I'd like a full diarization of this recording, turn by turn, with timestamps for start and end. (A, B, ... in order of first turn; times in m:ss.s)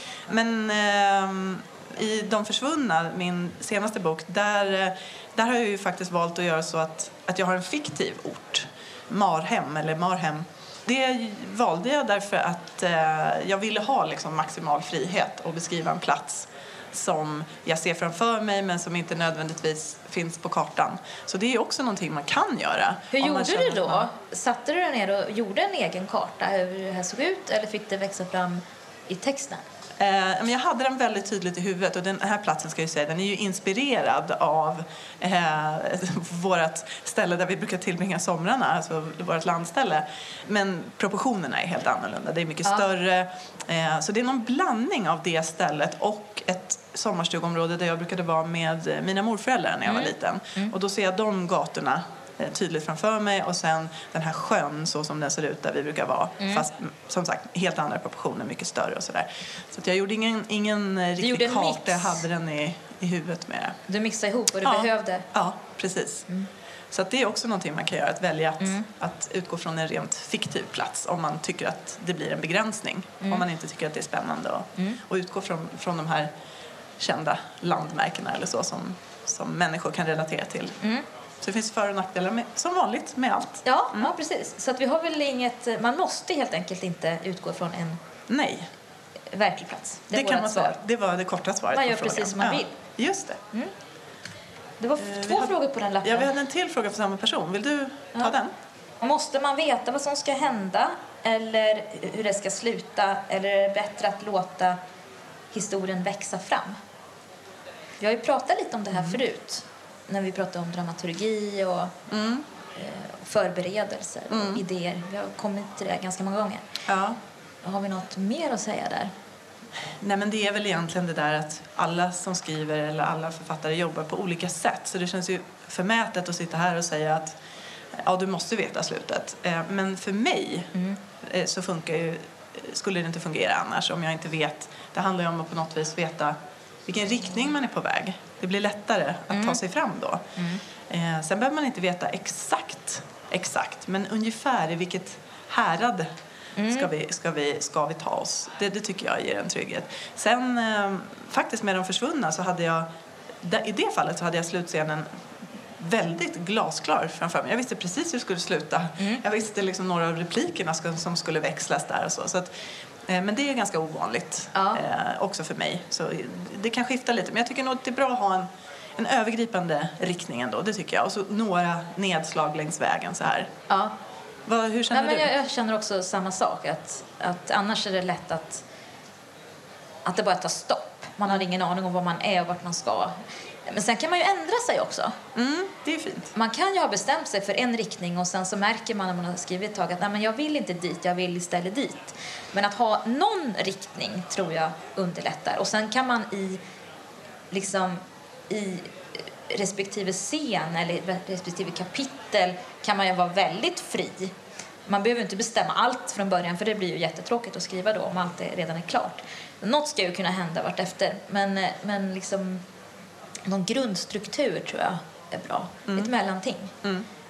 0:00.3-0:24.1 A
0:23.1-0:29.6 B
0:30.0-1:03.8 A
0:49.8-0:50.7 B
0:56.4-0:56.6 B
1:01.2-1:02.2 B
1:03.9-1:05.2 B
1:04.6-1:06.2 A
1:06.9-1:16.3 A
1:08.6-1:08.9 B
1:17.0-1:20.8 A
1:21.4-1:24.1 A
1:23.6-1:28.0 B
1:28.3-1:28.7 A
1:29.3-1:30.8 B
1:30.1-1:33.4 A
1:31.7-1:32.7 B
1:34.8-1:36.3 B
1:35.0-1:38.5 A
1:39.0-1:44.8 B
1:45.5-1:46.7 B
1:48.0-1:51.9 B
1:48.9-1:49.2 A
1:52.1-1:52.4 A
1:52.7-1:56.6 B
1:54.3-1:54.6 A
1:56.9-1:57.2 A
1:57.6-1:59.1 B
1:59.9-2:07.4 A
2:07.9-2:20.2 A
2:19.3-2:19.6 B
2:20.9-2:26.1 A
2:26.6-2:26.9 B
2:26.7-2:32.9 A
2:33.4-2:35.1 A
2:35.8-2:42.5 A
2:43.1-2:53.5 A
2:44.5-2:44.8 B
2:53.7-2:53.9 B
2:54.5-2:55.3 A
2:54.9-2:58.6 B
3:00.0-3:03.1 B
3:03.7-3:05.2 B
3:05.3-3:06.3 A
3:06.3-3:16.6 B
3:17.5-3:18.9 B
3:19.5-3:24.3 B
3:24.9-3:32.6 B
3:33.5-3:36.7 B